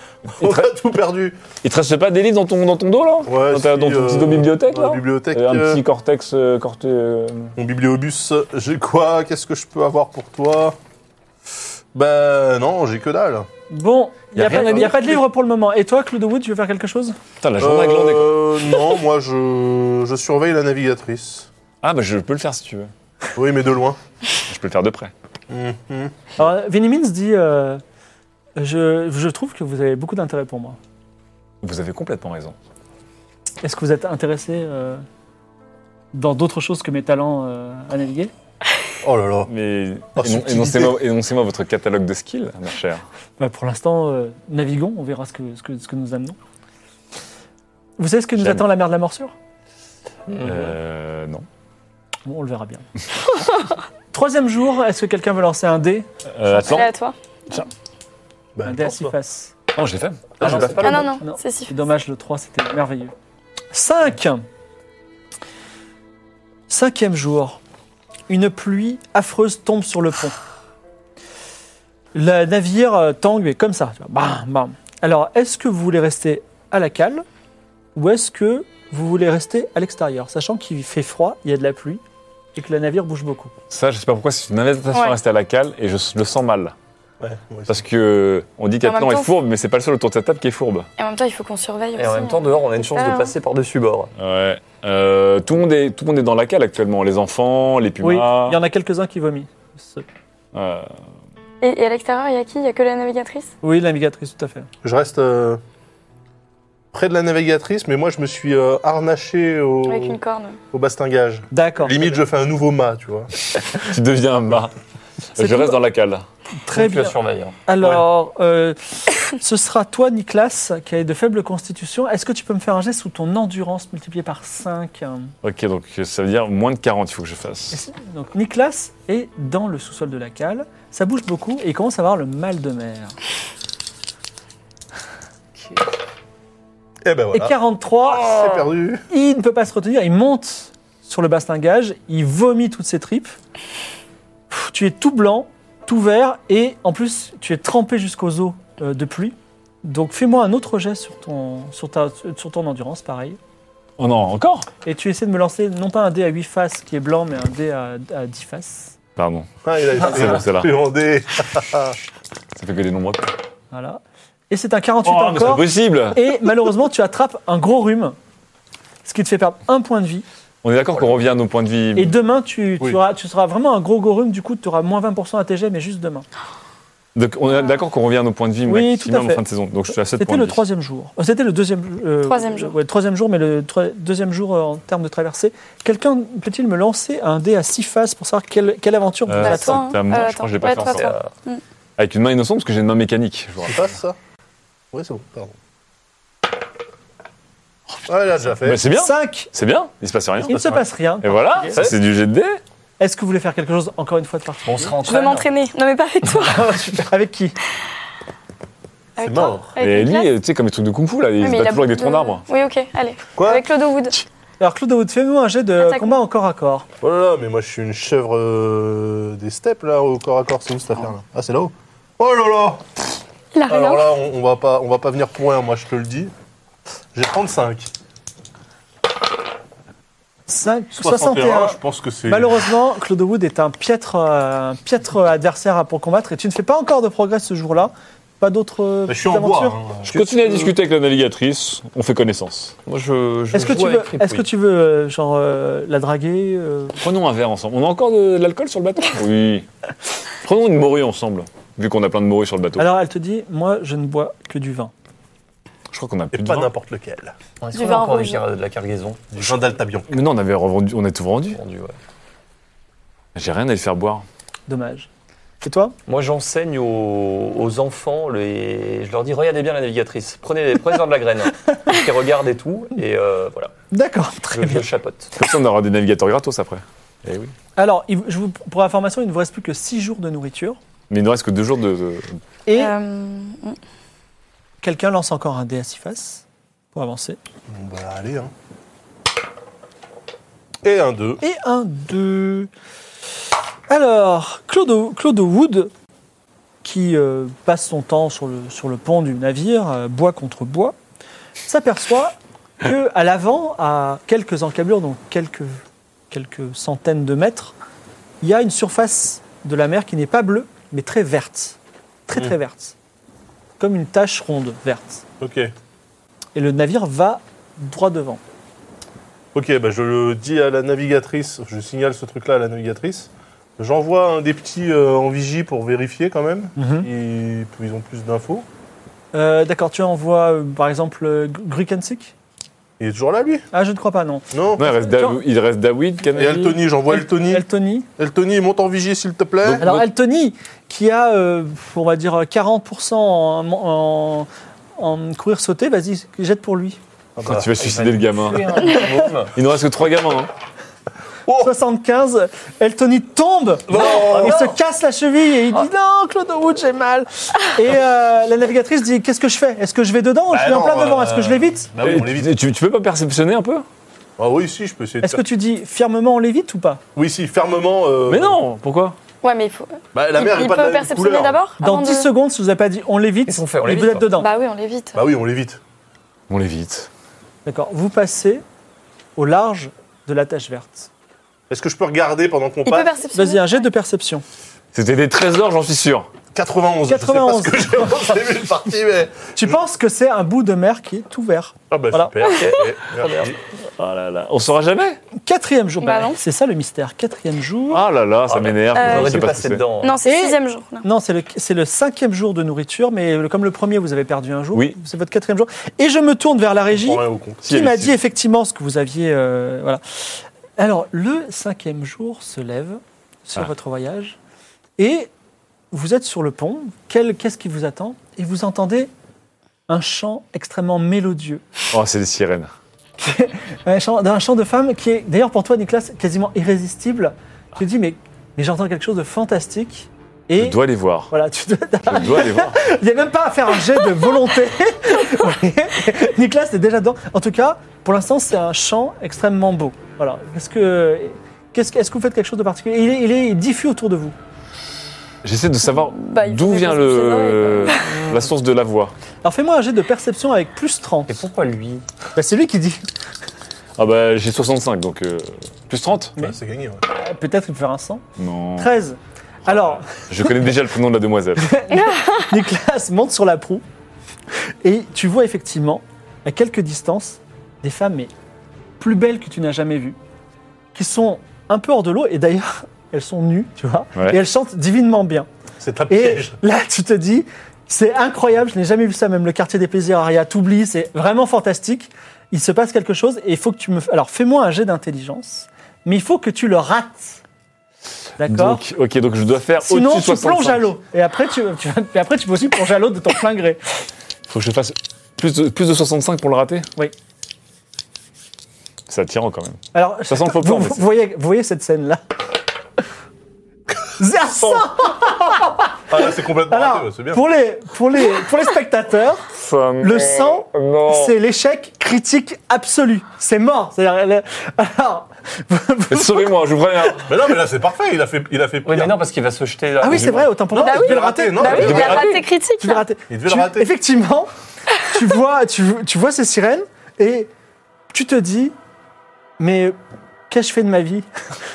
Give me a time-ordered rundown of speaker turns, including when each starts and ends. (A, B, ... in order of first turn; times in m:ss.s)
0:00.3-0:01.4 A
0:00.4-0:00.7 B
0:01.6-0:07.5 B
0:03.3-0:05.8 A
0:07.6-0:10.8 A
0:11.9-0:13.5 A
0:13.7-0:17.2 C
0:14.4-0:15.2 B
0:17.4-0:18.4 B
0:17.6-0:21.5 A
0:21.8-0:22.9 B
0:23.4-0:24.0 A
0:24.5-0:25.1 B
0:25.5-0:26.2 A
0:26.4-0:27.8 C
0:28.6-0:30.8 C
0:31.6-0:32.6 B
0:33.6-0:35.0 C
0:36.1-0:38.3 C
0:39.0-0:39.5 A
0:39.5-0:43.0 B
0:40.2-0:41.0 A
0:43.4-0:46.4 C
0:48.0-0:49.3 C
0:48.4-0:48.7 B
0:50.3-0:50.8 D
0:50.4-0:51.4 B
0:52.3-0:52.8 C
0:54.1-0:56.1 C
0:56.3-0:56.9 B
0:56.6-0:57.6 E
0:58.6-0:59.2 A
0:58.6-0:59.5 C
0:59.7-1:00.8 B
1:00.4-1:01.2 D
1:00.4-1:03.1 C
1:00.8-1:01.7 E
1:03.7-1:04.4 C
1:06.7-1:07.6 C
1:08.3-1:10.4 C
1:12.2-1:17.2 C
1:18.0-1:22.0 C
1:22.6-1:23.5 C
1:23.7-1:26.7 B
1:24.9-1:25.2 E
1:27.2-1:27.8 A
1:27.7-1:30.9 B
1:28.8-1:29.4 E
1:31.0-1:33.4 E
1:32.0-1:34.1 D
1:34.2-1:38.6 B
1:38.0-1:40.0 C
1:40.5-1:40.9 B
1:41.6-1:43.5 E
1:43.6-1:44.7 C
1:44.8-1:45.6 A
1:46.9-1:50.2 A
1:49.9-1:50.6 E
1:50.7-1:53.3 A
1:51.5-1:52.0 C
1:53.8-1:54.7 B
1:55.4-1:56.2 B
1:55.4-1:55.8 C
1:56.7-1:58.8 C
1:56.7-1:57.6 D
1:59.3-2:05.3 C
2:05.4-2:07.8 B
2:07.7-2:13.2 C
2:17.0-2:19.0 A
2:17.3-2:18.5 C
2:19.1-2:23.4 C
2:24.5-2:33.4 C
2:34.0-2:34.7 B
2:34.8-2:39.0 C
2:39.2-2:39.5 B
2:39.6-2:42.0 A
2:40.0-2:40.7 B
2:42.6-2:43.3 B
2:43.7-2:48.2 C
2:45.0-2:46.4 B
2:49.0-2:50.3 C
2:50.6-2:52.2 B
2:52.0-2:56.3 C
2:57.2-3:00.6 B
2:58.7-3:09.9 C
3:02.2-3:02.8 E
3:09.3-3:11.1 B
3:09.4-3:11.6 E
3:10.6-3:11.3 D
3:12.0-3:13.9 B
3:13.6-3:14.2 A
3:14.9-3:15.5 A
3:18.1-3:18.8 A
3:18.6-3:22.6 B
3:18.9-3:19.5 C
3:20.4-3:21.9 C
3:20.5-3:20.8 A
3:21.7-3:22.0 D
3:23.0-3:25.0 C
3:24.6-3:25.5 D
3:25.0-3:26.7 E
3:26.4-3:27.6 C
3:29.2-3:30.3 E
3:29.2-3:29.7 A
3:29.8-3:32.4 B
3:31.4-3:34.2 E
3:33.4-3:33.7 A
3:34.6-3:36.9 C
3:35.8-3:36.2 E
3:37.0-3:42.8 A
3:43.5-3:44.1 E
3:43.7-3:46.3 A
3:47.1-3:47.9 A
3:50.5-3:59.8 C
3:51.0-3:52.6 A
3:59.1-4:00.6 A
4:00.0-4:02.8 B
4:02.9-4:04.5 D
4:03.5-4:07.0 C
4:07.0-4:09.7 B
4:10.4-4:12.9 B
4:12.8-4:14.9 C
4:15.9-4:16.7 B
4:16.3-4:17.4 A
4:17.6-4:19.3 D
4:17.7-4:18.4 E
4:19.3-4:20.2 A
4:20.1-4:21.6 B
4:21.5-4:22.0 D
4:23.4-4:24.2 B
4:24.7-4:25.1 C
4:25.6-4:26.0 C
4:26.1-4:33.7 D
4:33.9-4:34.9 C
4:34.5-4:35.3 D
4:35.4-4:37.5 B
4:37.8-4:40.8 C
4:41.1-4:42.4 B
4:42.7-4:42.9 C
4:42.8-4:43.8 E
4:44.8-4:47.4 C
4:47.7-4:48.5 A
4:50.8-4:51.4 A
4:51.4-4:52.7 C
4:53.9-4:55.9 C
4:56.8-5:01.0 C
5:01.7-5:07.7 C
5:08.4-5:13.0 C
5:13.8-5:15.2 C
5:15.4-5:15.7 A
5:16.6-5:18.4 C
5:19.5-5:28.7 A
5:26.8-5:27.1 C
5:29.3-5:32.3 C
5:33.0-5:33.7 A
5:33.7-5:35.4 C
5:34.5-5:34.9 A
5:34.8-5:36.8 B
5:36.3-5:37.7 A
5:37.1-5:38.1 C
5:38.2-5:39.8 A
5:39.6-5:40.1 B
5:39.8-5:47.0 C
5:47.4-5:47.7 A
5:47.4-5:50.5 B
5:47.8-5:49.6 D
5:51.5-5:51.7 A
5:51.6-6:01.9 C
5:53.9-5:54.6 A
5:53.9-5:54.8 D
6:00.5-6:02.6 A
6:02.0-6:03.9 B
6:04.4-6:05.4 A
6:05.2-6:07.0 C
6:07.2-6:08.6 A
6:08.3-6:09.2 B
6:09.4-6:12.3 E
6:10.1-6:11.6 A
6:11.8-6:14.5 C
6:13.5-6:14.4 D
6:14.4-6:15.2 E
6:15.1-6:15.8 A
6:16.5-6:17.1 B
6:17.7-6:18.6 C
6:19.4-6:21.1 C
6:21.7-6:23.2 A
6:22.9-6:23.8 E
6:23.3-6:24.4 C
6:24.9-6:26.3 B
6:26.6-6:29.8 A
6:27.1-6:28.0 C
6:29.6-6:32.4 C
6:31.9-6:33.6 A
6:32.4-6:33.6 D
6:33.8-6:35.2 B
6:35.4-6:38.0 C
6:36.0-6:36.4 E
6:37.9-6:39.8 B
6:38.4-6:40.2 D
6:39.0-6:39.4 E
6:40.0-6:41.1 E
6:40.2-6:50.0 C
6:46.9-6:47.7 A
6:47.7-6:48.2 B
6:50.8-6:54.4 C
6:55.0-6:55.3 C
6:55.9-6:59.1 C
6:59.9-7:01.6 C
7:01.9-7:02.7 B
7:03.2-7:24.4 C
7:10.6-7:11.3 B
7:12.1-7:12.8 B
7:25.4-7:29.1 B
7:25.9-7:28.1 E
7:28.1-7:28.5 D
7:29.4-7:31.4 C
7:31.3-7:32.0 D
7:32.4-7:33.0 C
7:34.0-7:36.4 B
7:36.4-7:38.2 C
7:36.4-7:37.0 A
7:38.4-7:38.9 B
7:38.8-7:40.6 C
7:40.2-7:41.8 B
7:41.6-7:43.8 C
7:41.9-7:42.5 E
7:44.8-7:48.3 C
7:49.0-7:50.2 C
7:50.9-7:55.5 C
7:54.2-7:54.4 B
7:55.8-7:56.6 A
7:56.1-8:07.4 C
8:08.4-8:08.8 C
8:08.4-8:11.0 B
8:09.8-8:13.8 C
8:14.5-8:16.9 B
8:19.1-8:21.1 B
8:19.9-8:22.2 C
8:24.2-8:26.0 C
8:24.6-8:24.9 A
8:26.1-8:27.4 A
8:26.7-8:29.5 C
8:29.5-8:31.3 B
8:30.0-8:36.5 C
8:36.1-8:37.3 B
8:37.3-8:39.2 A
8:38.8-8:40.5 D
8:40.0-8:42.1 C
8:40.7-8:42.3 A
8:40.8-8:43.0 E
8:41.7-8:42.3 D
8:41.8-8:42.4 B
8:42.8-8:44.5 C
8:43.3-8:43.9 A
8:45.1-8:47.5 C
8:48.1-8:48.7 C
8:49.6-8:50.0 C
8:50.5-8:51.3 C